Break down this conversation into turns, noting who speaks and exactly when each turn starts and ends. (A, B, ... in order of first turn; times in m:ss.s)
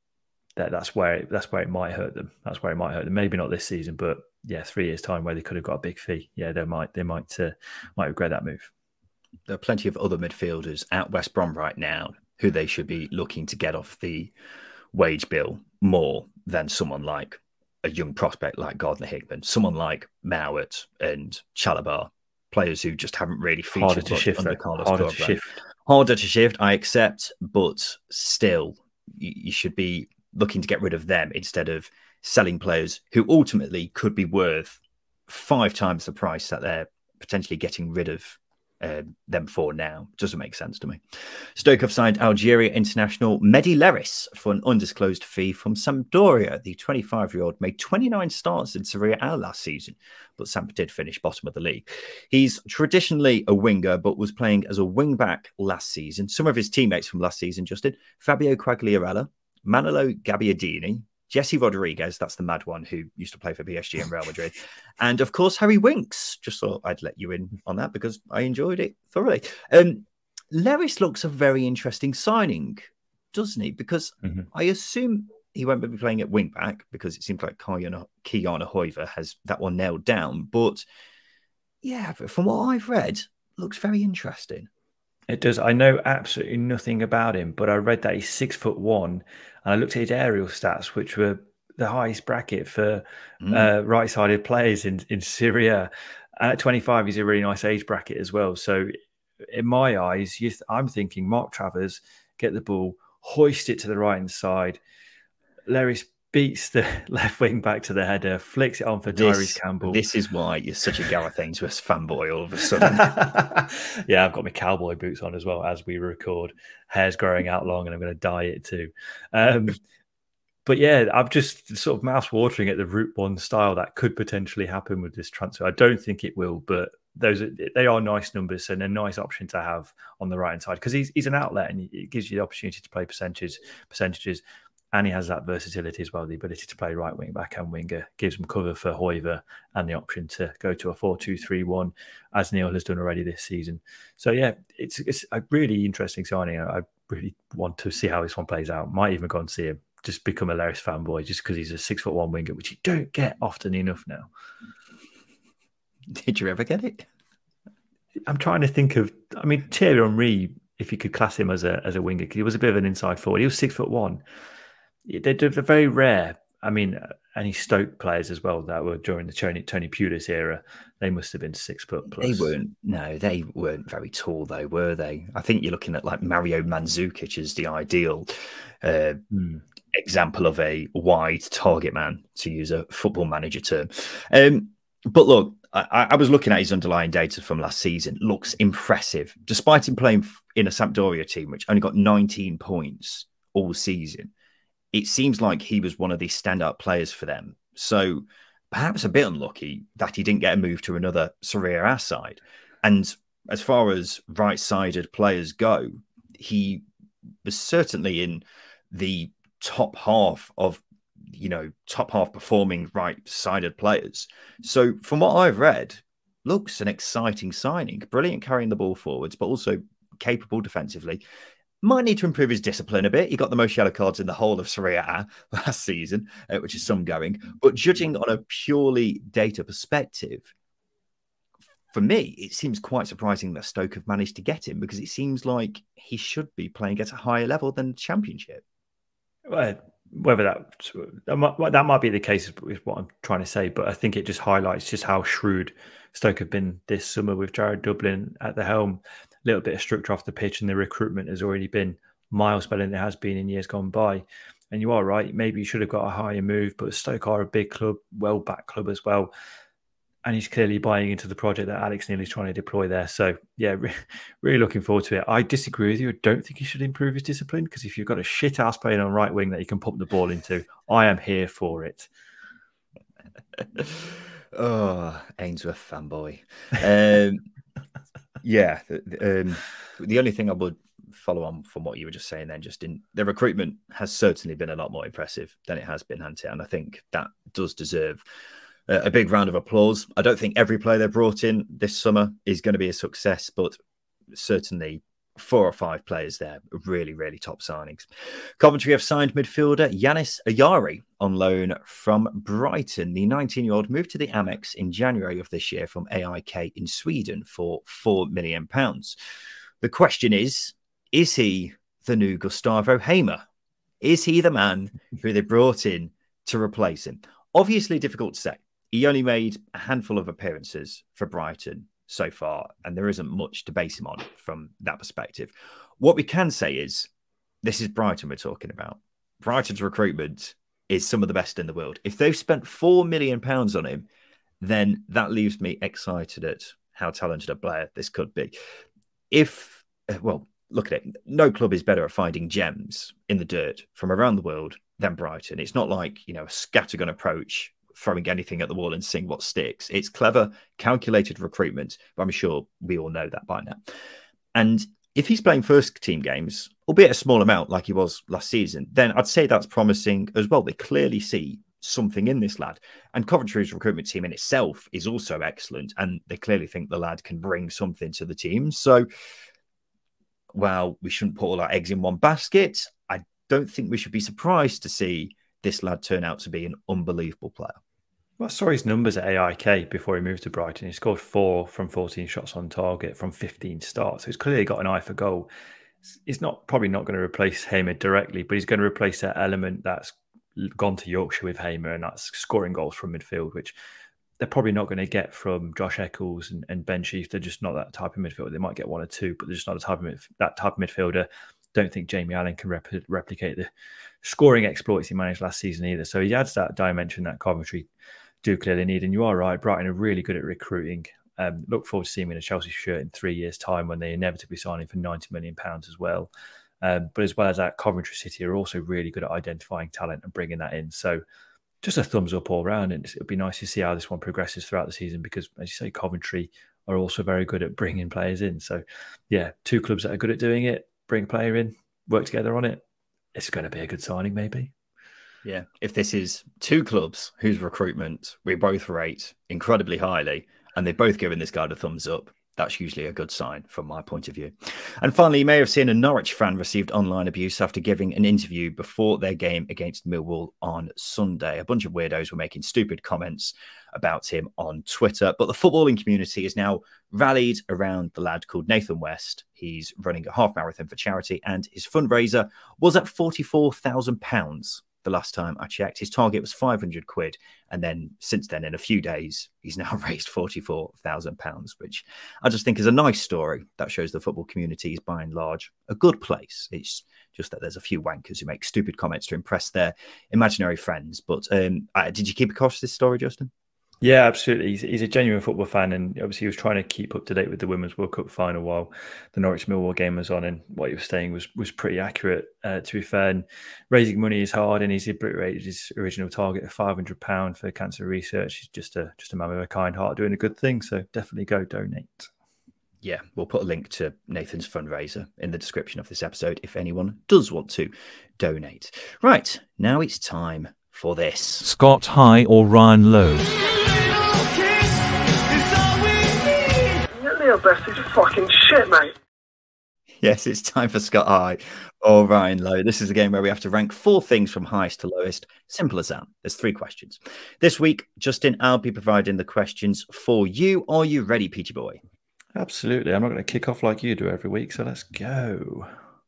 0:00.6-0:08.7 A
0:09.5-0:14.3 B
0:14.9-1:20.8 B
0:23.7-0:25.5 A
1:21.8-1:24.7 B
1:25.3-1:38.9 A
1:33.4-1:33.7 B
1:39.5-1:44.8 A
1:45.7-1:50.0 A
1:49.1-1:53.2 B
1:52.8-1:59.8 A
2:00.6-2:14.4 A
2:14.9-2:34.3 A
2:36.1-2:37.1 B
2:38.3-2:44.2 A
2:45.0-2:52.5 A
2:52.2-2:59.2 B
2:59.9-3:14.3 B
3:14.9-3:26.8 B
3:27.4-3:41.2 B
3:41.8-3:50.5 B
3:51.9-3:58.6 B
3:59.5-4:19.3 A
4:20.2-4:32.1 A
4:33.6-4:37.4 B
4:38.4-4:48.2 B
4:48.9-4:53.8 B
4:54.3-5:09.2 B
5:09.8-5:13.4 B
5:14.0-5:27.1 B
5:27.6-5:34.1 B
5:34.6-5:38.5 B
5:39.3-5:53.9 B
5:54.5-6:09.0 B
6:10.5-6:17.8 B
6:18.4-6:25.5 A
6:26.2-6:33.7 A
6:34.4-6:43.7 A
6:44.2-6:47.9 A
6:48.4-6:56.3 A
6:56.8-7:01.2 A
7:01.8-7:12.8 A
7:13.3-7:14.7 A
7:15.4-8:03.5 B
8:04.0-8:22.3 A
8:23.0-8:31.7 B
8:31.6-8:33.6 C
8:34.3-8:35.0 D
8:35.6-8:39.1 D
8:40.2-8:52.0 B
8:52.6-8:55.9 A